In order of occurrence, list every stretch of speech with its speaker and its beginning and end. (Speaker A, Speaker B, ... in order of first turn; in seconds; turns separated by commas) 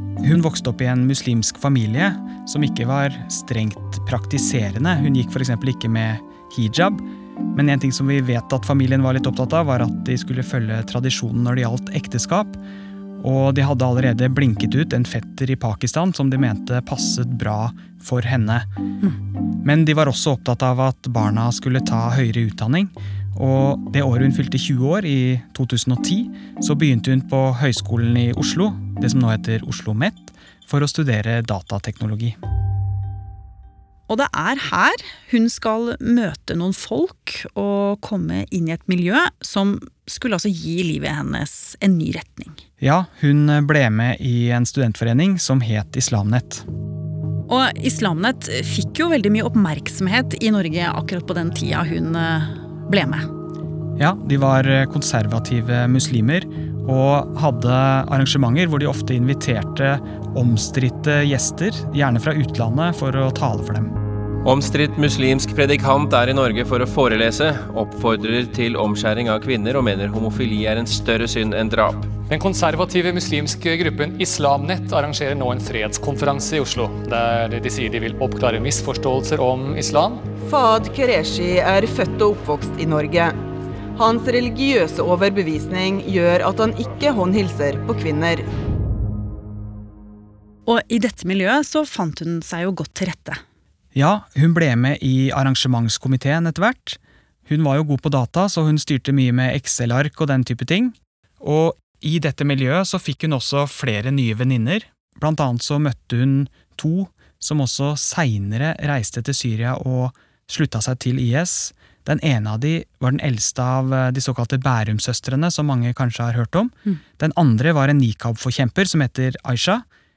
Speaker A: 0.2-12.6, Speaker A: 13.2-18.7, Speaker A: 19.6-32.4, Speaker B: 34.1-42.6, Speaker A: 42.8-46.6, Speaker B: 47.5-53.2, Speaker A: 54.0-63.9, Speaker C: 64.5-72.1, Speaker D: 72.3-80.2, Speaker E: 80.5-83.3, Speaker E: 84.0-88.5, Speaker B: 90.7-93.4, Speaker A: 94.0-119.8